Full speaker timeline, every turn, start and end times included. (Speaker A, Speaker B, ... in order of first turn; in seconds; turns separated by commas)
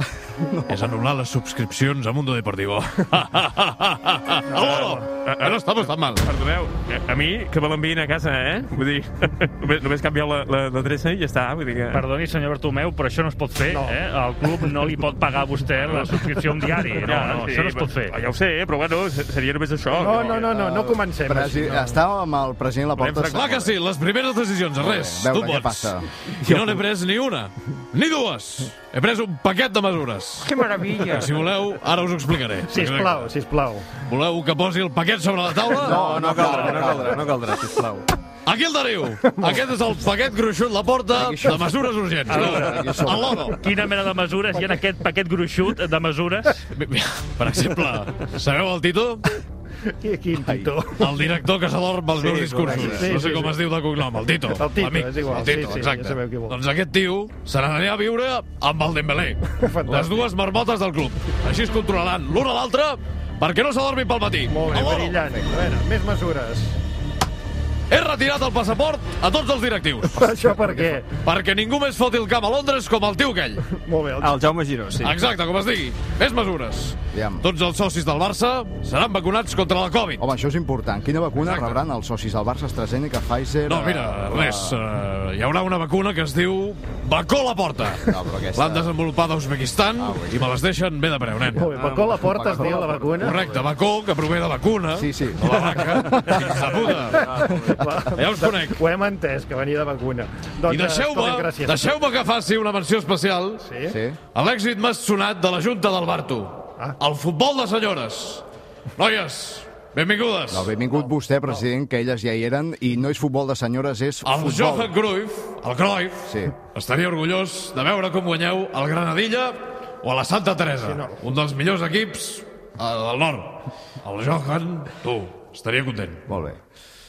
Speaker A: 0.3-0.8, Speaker B: 0.7-6.3, Speaker C: 4.5-5.0, Speaker D: 5.2-5.6, Speaker D: 6.2-12.0, Speaker E: 11.9-18.2, Speaker C: 13.7-14.0, Speaker D: 15.8-20.5, Speaker C: 19.9-22.0, Speaker A: 20.3-23.7, Speaker D: 23.0-23.3, Speaker B: 23.2-33.3, Speaker A: 24.8-26.1, Speaker F: 30.8-31.2, Speaker C: 32.7-33.9, Speaker B: 34.0-36.8, Speaker F: 35.7-38.1, Speaker A: 35.7-37.2, Speaker B: 38.5-43.6, Speaker C: 39.2-39.6, Speaker A: 41.1-43.5, Speaker E: 43.5-46.6, Speaker B: 46.8-49.3, Speaker C: 50.0-51.2, Speaker A: 50.4-50.7, Speaker B: 51.0-65.3, Speaker F: 52.1-53.1, Speaker C: 52.7-53.5, Speaker C: 54.5-56.6, Speaker C: 59.5-60.3, Speaker C: 64.5-66.8, Speaker B: 67.9-70.4, Speaker C: 70.1-71.1, Speaker A: 70.4-70.9, Speaker B: 71.2-73.6, Speaker C: 73.7-74.4, Speaker F: 74.2-75.2, Speaker B: 75.0-80.2, Speaker A: 77.1-77.4, Speaker A: 80.2-84.8, Speaker B: 81.4-81.8, Speaker B: 83.7-91.7, Speaker A: 88.0-88.9, Speaker A: 90.0-90.5, Speaker C: 91.5-93.4, Speaker F: 91.7-93.3, Speaker B: 93.1-97.5, Speaker A: 94.9-96.6, Speaker C: 97.0-102.0, Speaker F: 97.1-97.8, Speaker B: 98.1-98.8, Speaker B: 100.6-103.6, Speaker C: 103.6-104.0, Speaker A: 103.9-104.2, Speaker B: 104.3-108.4, Speaker B: 109.0-110.7, Speaker A: 110.5-114.9, Speaker C: 110.9-111.6, Speaker B: 114.2-126.2, Speaker A: 116.2-116.5, Speaker C: 120.8-121.2, Speaker A: 126.3-126.6